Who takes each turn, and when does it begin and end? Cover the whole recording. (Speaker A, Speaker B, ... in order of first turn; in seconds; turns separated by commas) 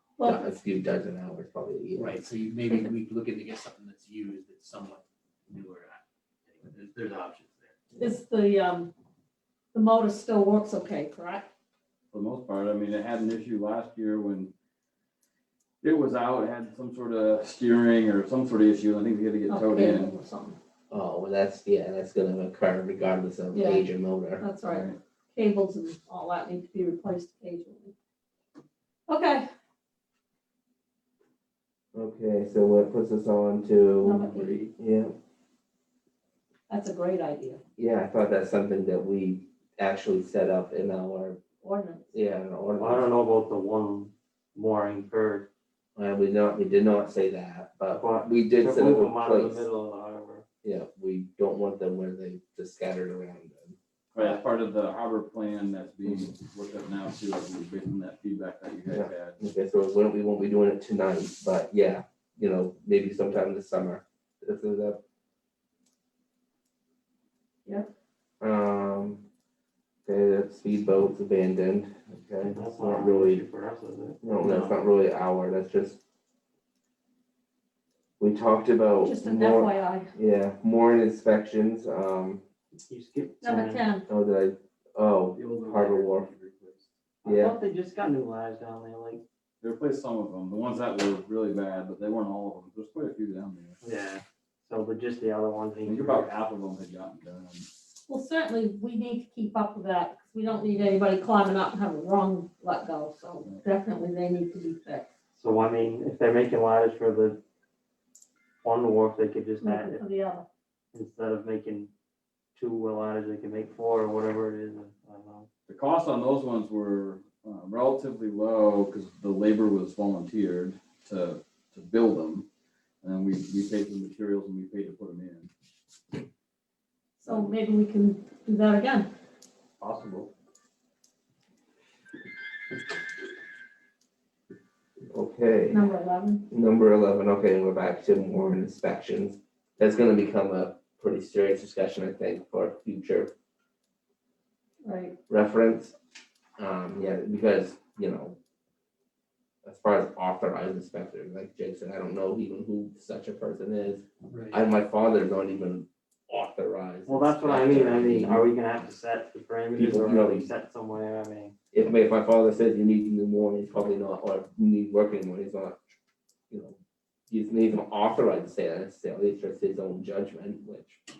Speaker A: 0.2-0.4, Speaker B: 0.2-2.1, Speaker C: 2.0-7.8, Speaker A: 8.0-8.9, Speaker A: 9.7-11.5, Speaker D: 12.1-14.5, Speaker D: 15.8-20.1, Speaker A: 19.5-20.6, Speaker B: 20.9-24.4, Speaker A: 23.5-27.9, Speaker D: 24.7-25.0, Speaker A: 29.1-29.5, Speaker B: 31.9-35.1, Speaker A: 34.0-34.7, Speaker A: 36.7-37.6, Speaker B: 37.8-41.4, Speaker A: 41.6-42.1, Speaker B: 42.1-43.1, Speaker E: 42.8-45.5, Speaker B: 46.0-49.6, Speaker E: 47.9-50.5, Speaker B: 50.6-53.8, Speaker D: 54.1-59.4, Speaker B: 58.9-65.0, Speaker B: 68.4-69.2, Speaker B: 70.1-73.4, Speaker E: 72.4-74.8, Speaker B: 74.2-76.0, Speaker B: 78.2-82.4, Speaker A: 79.0-80.1, Speaker E: 82.8-83.8, Speaker A: 83.4-84.0, Speaker B: 84.1-86.3, Speaker C: 85.3-86.8, Speaker E: 87.2-89.2, Speaker B: 87.2-87.6, Speaker D: 89.6-93.8, Speaker E: 93.8-96.4, Speaker D: 95.8-97.7, Speaker A: 98.1-105.1, Speaker E: 105.4-107.4, Speaker E: 108.6-110.0, Speaker A: 109.6-110.5, Speaker E: 110.9-111.9, Speaker E: 112.5-115.5, Speaker D: 115.7-122.5, Speaker D: 123.0-125.5, Speaker A: 127.2-129.1, Speaker E: 129.8-130.3, Speaker B: 135.1-135.8, Speaker A: 135.7-136.4, Speaker B: 136.5-143.3, Speaker A: 144.8-145.2, Speaker B: 145.3-145.9, Speaker B: 146.6-148.4, Speaker B: 149.7-158.5, Speaker C: 154.3-154.6, Speaker E: 157.1-161.6, Speaker B: 159.8-160.5, Speaker B: 161.7-165.8, Speaker B: 166.5-166.8, Speaker B: 167.3-171.0